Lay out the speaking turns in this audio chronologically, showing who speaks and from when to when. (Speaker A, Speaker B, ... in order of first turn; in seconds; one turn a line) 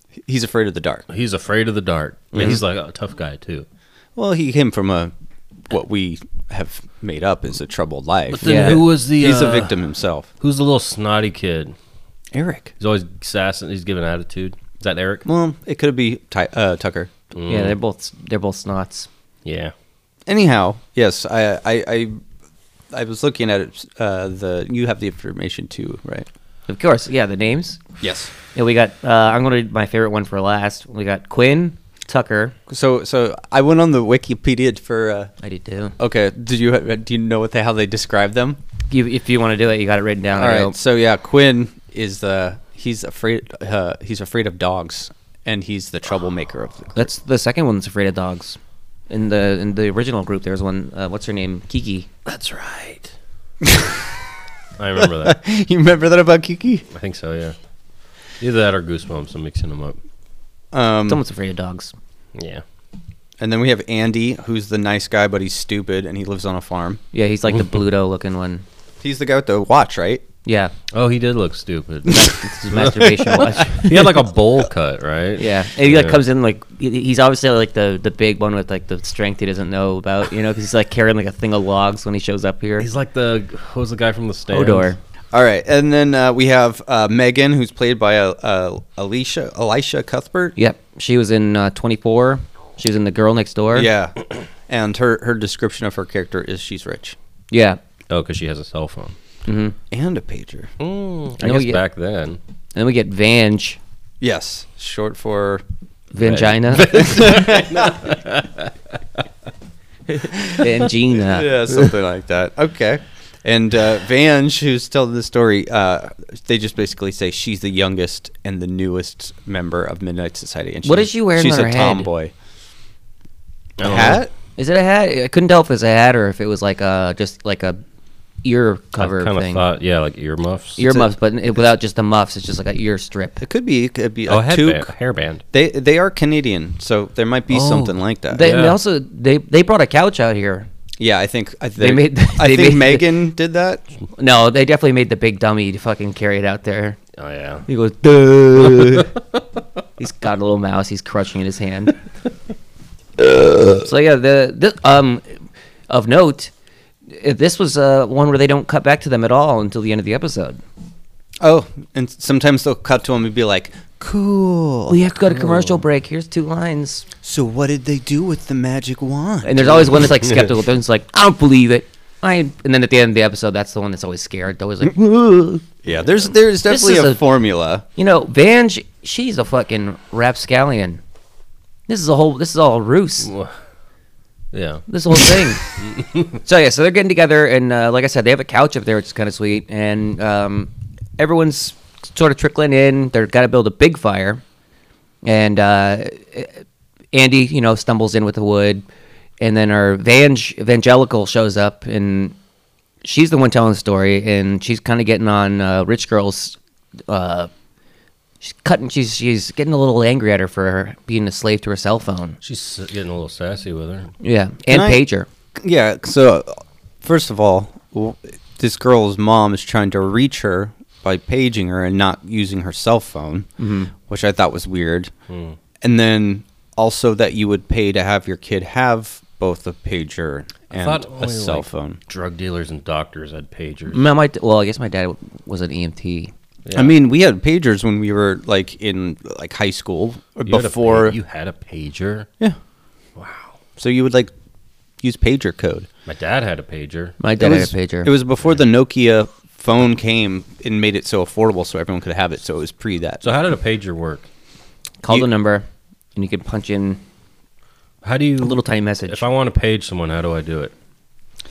Speaker A: 0.2-1.0
Speaker B: 1.1-3.6
Speaker A: 4.2-5.1
Speaker A: 5.7-10.3
Speaker B: 8.3-9.7
Speaker C: 8.4-8.8
Speaker B: 10.4-11.7
Speaker A: 12.3-12.7
Speaker B: 12.8-15.2
Speaker A: 15.2-17.1
Speaker B: 17.3-17.8
Speaker C: 17.5-19.1
Speaker B: 19.4-19.7
Speaker A: 20.3-22.1
Speaker A: 22.9-26.3
Speaker C: 26.7-27.8
Speaker A: 28.0-28.3
Speaker C: 28.5-32.5
Speaker A: 32.7-35.3
Speaker C: 35.4-36.0
Speaker A: 36.0-38.6
Speaker C: 38.9-40.7
Speaker A: 40.3-47.1
Speaker C: 46.9-48.6
Speaker C: 49.1-52.1
Speaker B: 52.2-53.1
Speaker A: 53.6-53.9
Speaker B: 54.8-55.4
Speaker A: 55.0-56.9
Speaker B: 56.9-57.5
Speaker B: 58.4-60.0
Speaker A: 60.7-61.2
Speaker C: 61.1-61.9
Speaker B: 62.3-62.6
Speaker A: 63.4-67.0
Speaker C: 67.1-68.6
Speaker A: 69.0-70.2
Speaker C: 70.5-70.7
Speaker B: 70.9-76.2
Speaker C: 72.1-74.2
Speaker C: 75.4-82.9
Speaker B: 82.8-84.9
Speaker C: 84.5-85.0
Speaker A: 85.3-90.5
Speaker C: 90.5-93.9
Speaker A: 93.7-94.2
Speaker A: 94.7-97.2
Speaker C: 97.5-97.8
Speaker B: 98.1-99.2
Speaker C: 99.5-99.8
Speaker A: 99.9-100.7
Speaker B: 100.8-102.4
Speaker C: 101.4-101.8
Speaker C: 102.7-103.8
Speaker A: 104.2-105.6
Speaker C: 106.1-107.2
Speaker B: 106.2-108.7
Speaker A: 106.9-108.1
Speaker A: 110.3-110.6
Speaker C: 110.5-111.7
Speaker A: 111.1-122.3
Speaker C: 120.8-122.1
Speaker B: 123.8-124.2
Speaker A: 123.8-124.3
Speaker C: 124.6-127.8
Speaker C: 128.4-129.6
Speaker B: 129.0-130.9
Speaker C: 130.8-133.4
Speaker A: 133.4-134.9
Speaker B: 134.3-135.4
Speaker A: 135.5-138.5
Speaker B: 137.5-138.8
Speaker C: 138.3-140.7
Speaker A: 141.0-143.8
Speaker C: 141.8-143.1
Speaker C: 144.2-147.0
Speaker B: 147.2-147.7
Speaker C: 147.7-149.1
Speaker C: 150.0-151.9
Speaker C: 153.7-156.5
Speaker C: 157.1-160.6
Speaker A: 161.4-165.0
Speaker C: 164.9-167.1
Speaker A: 167.2-170.1
Speaker C: 169.4-175.7
Speaker A: 175.8-177.8
Speaker C: 176.7-177.2
Speaker C: 177.9-181.0
Speaker C: 181.9-183.3
Speaker B: 183.2-183.5
Speaker B: 184.5-186.4
Speaker C: 184.9-185.6
Speaker C: 186.4-194.4
Speaker C: 195.2-196.6
Speaker C: 197.1-198.8
Speaker C: 199.4-202.3
Speaker C: 203.0-206.6
Speaker C: 207.1-207.5
Speaker C: 208.4-212.4
Speaker B: 212.4-214.1
Speaker C: 214.2-215.3
Speaker A: 214.7-215.0
Speaker A: 215.6-223.5
Speaker C: 223.6-223.9
Speaker A: 224.1-225.1
Speaker B: 225.3-225.6
Speaker A: 225.8-232.0
Speaker B: 230.7-234.0
Speaker C: 233.9-236.3
Speaker B: 236.7-236.9
Speaker A: 236.7-241.2
Speaker B: 240.5-242.3
Speaker B: 243.2-243.5
Speaker A: 243.8-244.3
Speaker A: 245.0-245.9
Speaker B: 246.1-247.2
Speaker C: 247.2-248.1
Speaker A: 247.4-253.2
Speaker B: 253.2-254.3
Speaker C: 255.0-257.0
Speaker B: 258.0-260.7
Speaker C: 258.4-259.2